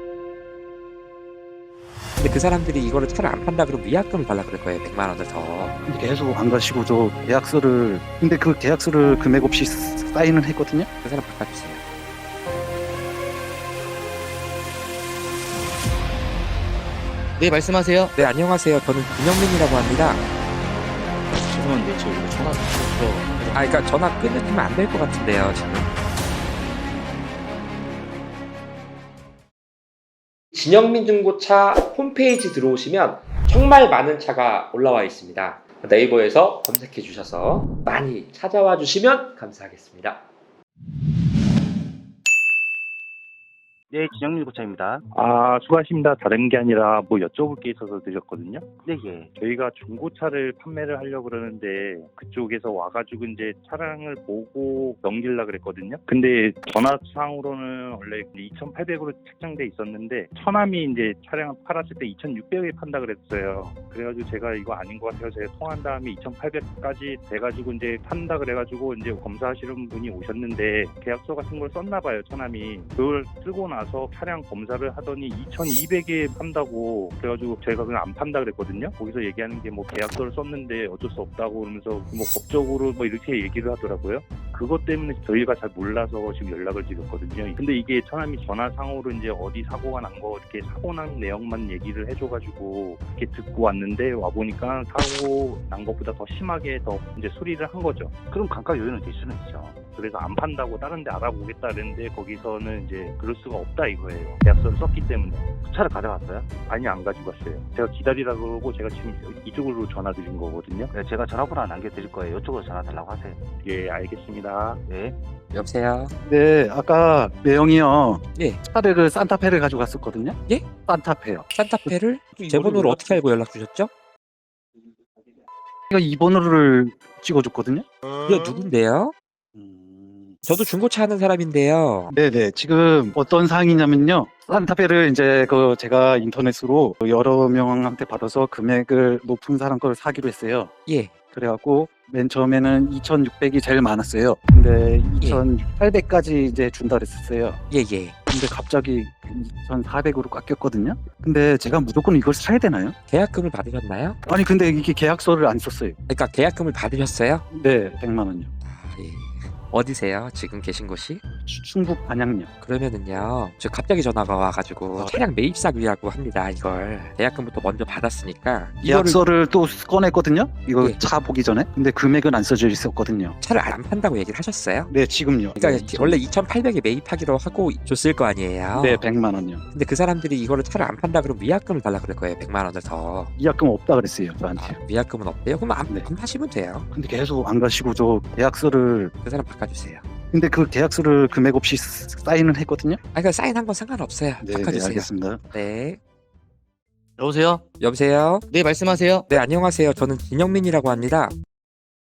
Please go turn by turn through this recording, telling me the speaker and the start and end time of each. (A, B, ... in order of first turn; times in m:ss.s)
0:02.2-0:05.8 A
0:05.8-0:10.9 B
0:11.0-0:11.8 A
0:17.4-0:18.2 C
0:18.2-0:20.2 A
0:21.3-0:23.7 C
0:23.5-0:25.9 A
0:30.5-0:40.2 A
0:43.9-0:45.0 D
0:45.1-0:48.6 E
0:48.8-0:49.3 D
0:49.3-1:38.1 E
1:38.3-1:39.8 D
1:39.9-1:45.5 E
1:45.6-1:46.5 D
1:46.6-1:50.9 E
1:50.9-1:53.4 D
1:53.6-1:54.8 E
1:54.8-1:55.2 D
1:55.5-1:56.1 A
1:56.2-2:03.2 B
1:58.4-1:58.6 A
2:01.5-2:03.9 A
2:05.9-2:07.9 B
2:08.2-2:09.1 A
2:09.5-2:10.4 B
2:10.4-2:12.1 A
2:12.1-2:20.7 B
2:20.8-2:21.1 A
2:21.3-2:27.6 B
2:25.2-2:25.4 A
2:27.7-2:28.2 A
2:28.3-2:33.0 B
2:33.1-2:34.2 A
2:34.2-2:36.0 B
2:36.1-2:37.4 A
2:37.5-2:38.5 B
2:38.6-2:41.2 A
2:41.4-2:42.5 B
2:42.6-2:49.2 A
2:48.8-2:53.4 B
2:53.4-2:54.9 A
2:54.9-2:56.2 B
2:55.6-2:59.0 A
2:58.7-2:59.6 B
2:59.7-3:03.3 A
3:03.4-3:04.8 B
3:04.6-3:06.9 A
3:06.9-3:09.1 B
3:09.2-3:10.0 A
3:10.3-3:13.0 B
3:13.1-3:16.0 A
3:14.4-3:15.4 B
3:17.2-3:17.6 C
3:17.8-3:18.5 A
3:18.5-3:19.3 C
3:19.3-3:21.3 A